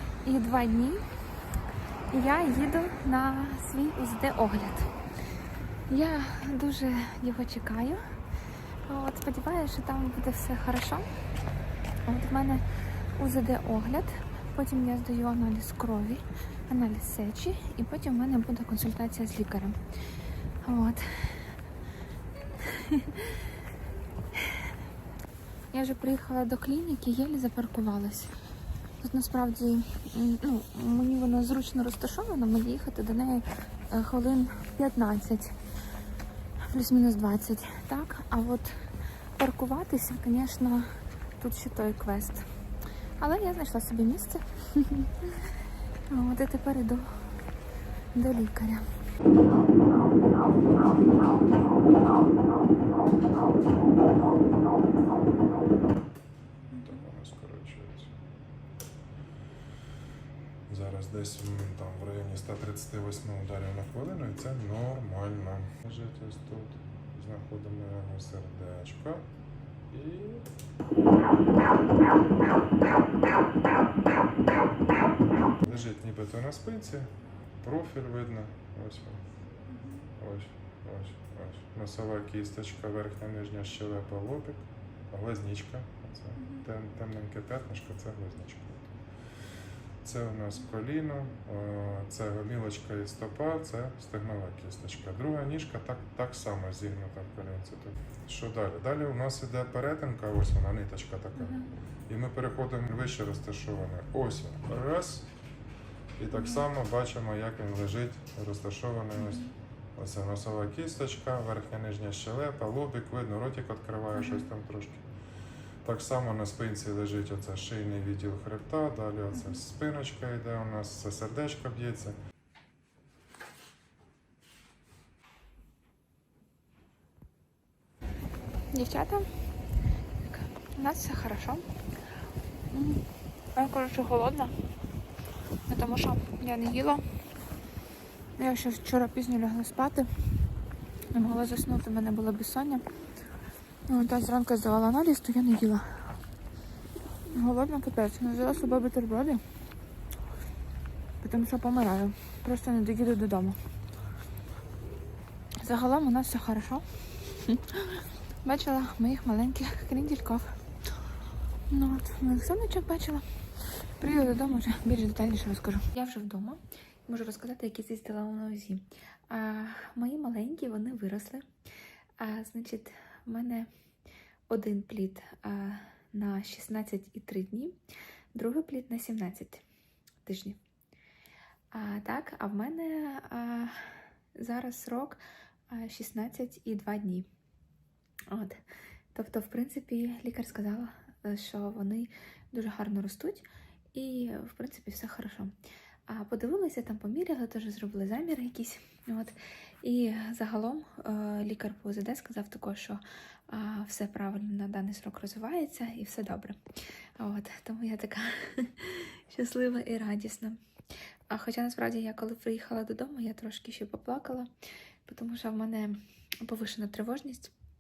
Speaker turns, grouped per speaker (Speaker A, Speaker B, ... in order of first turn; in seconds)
Speaker A: 0.2-1.0, 2.1-4.9, 5.9-8.0, 8.8-11.1, 12.1-12.6, 13.2-19.8, 20.6-21.6, 22.4-23.5, 24.3-24.7, 25.7-28.3, 29.0-35.5, 36.6-38.7, 39.4-42.5, 43.2-45.5, 46.1-47.2, 48.1-48.9, 56.7-57.0, 79.7-80.0, 86.4-86.6, 101.4-101.7, 106.3-106.6, 109.2-109.5, 114.1-114.5, 119.3-119.6, 128.7-129.4, 130.2-131.6, 132.7-134.6, 135.7-137.0, 138.4-140.2, 141.1-142.8, 143.9-146.1, 147.3-149.4, 151.2-153.6, 155.6-160.6, 161.7-163.2, 164.0-171.4, 172.2-173.7, 174.5-177.8, 178.3-179.6, 180.2-180.6, 181.7-185.2, 185.7-187.3, 188.3-188.6, 189.1-195.5, 196.1-206.6, 207.2-210.6, 211.3-214.5, 215.1-217.5
Speaker B: 56.8-58.1, 60.7-69.3, 69.9-70.5, 75.6-79.2, 80.2-88.9, 90.0-105.3, 106.2-115.0, 115.8-122.2